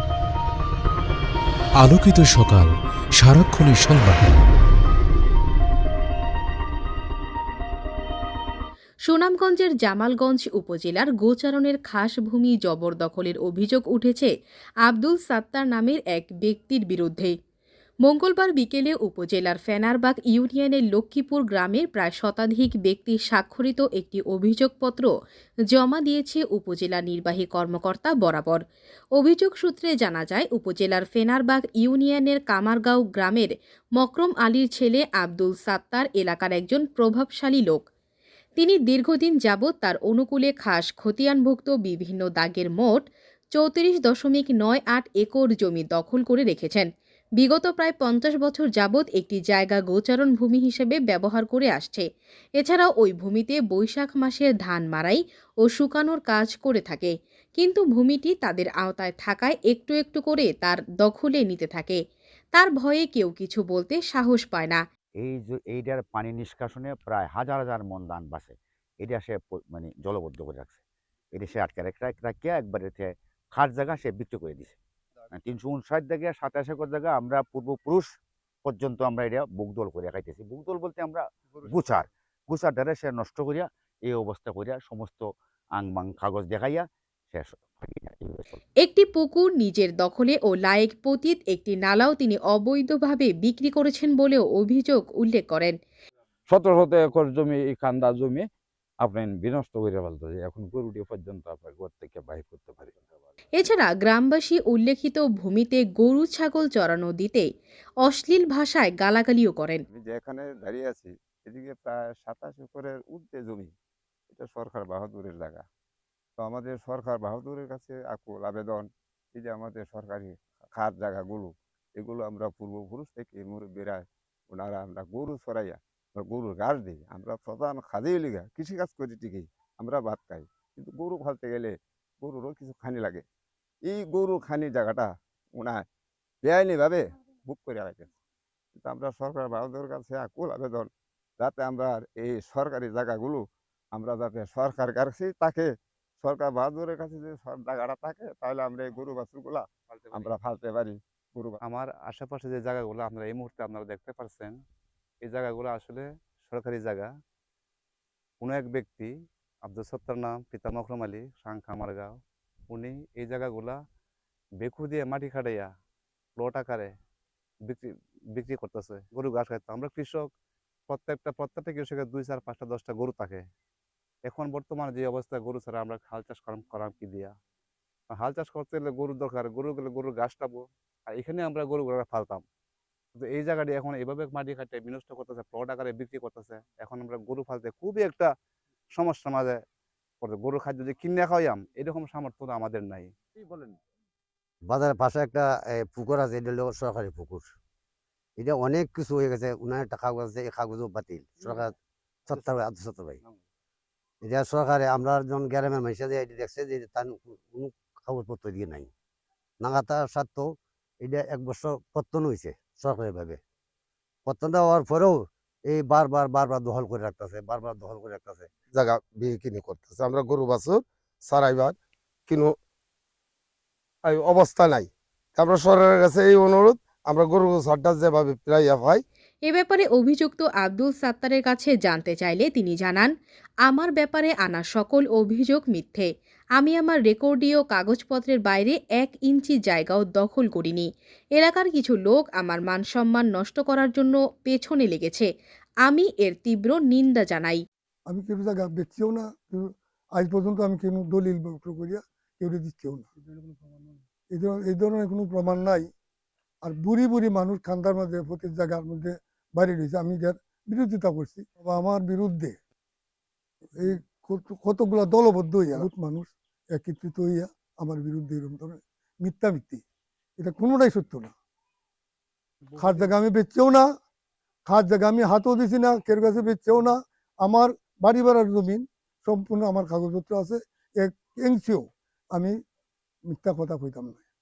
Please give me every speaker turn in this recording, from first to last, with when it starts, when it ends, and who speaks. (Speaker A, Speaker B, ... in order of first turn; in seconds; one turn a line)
Speaker A: 1.8-4.5
Speaker B: 9.1-14.3
Speaker B: 14.8-17.3
Speaker B: 18.1-25.1
Speaker B: 25.7-28.6
Speaker B: 29.2-37.8
Speaker B: 38.6-43.0
Speaker B: 43.5-46.9
Speaker B: 47.4-52.0
Speaker B: 52.6-62.0
Speaker B: 62.5-64.8
Speaker C: 65.2-70.8
Speaker C: 71.3-74.8
Speaker C: 75.3-78.1
Speaker C: 78.6-85.2
Speaker C: 85.8-88.5
Speaker B: 88.8-95.7
Speaker D: 96.5-98.5
Speaker D: 99.0-103.2
Speaker B: 103.6-107.5
Speaker B: 108.0-109.8
Speaker E: 109.9-113.7
Speaker E: 114.3-115.6
Speaker E: 116.4-133.2
Speaker E: 133.8-135.8
Speaker E: 136.4-138.1
Speaker E: 138.8-140.9
Speaker E: 141.4-143.4
Speaker E: 143.9-145.7
Speaker E: 146.2-151.6
Speaker F: 149.9-150.3
Speaker F: 151.6-154.5
Speaker F: 155.2-157.1
Speaker F: 158.4-159.1
Speaker F: 159.6-162.1
Speaker F: 162.7-163.8
Speaker F: 164.6-165.7
Speaker F: 166.4-166.9
Speaker F: 167.7-170.2
Speaker F: 170.9-173.4
Speaker F: 174.3-177.3
Speaker F: 178.1-180.6
Speaker F: 181.1-182.4
Speaker F: 183.2-188.3
Speaker F: 189.0-189.6
Speaker F: 190.2-193.1
Speaker G: 194.7-197.5
Speaker G: 198.4-201.7
Speaker G: 202.3-203.2
Speaker G: 204.2-208.9
Speaker G: 209.6-213.4
Speaker G: 214.2-218.6
Speaker H: 218.7-221.8
Speaker H: 222.3-222.5
Speaker H: 224.0-229.0
Speaker B: 229.5-233.1
Speaker B: 233.7-245.3
Speaker B: 245.8-247.6
Speaker I: 248.1-253.1
Speaker I: 254.3-255.9
Speaker I: 256.6-262.6
Speaker I: 263.7-269.8
Speaker I: 270.4-271.3
Speaker I: 272.8-273.9
Speaker I: 274.7-282.5
Speaker I: 283.3-284.2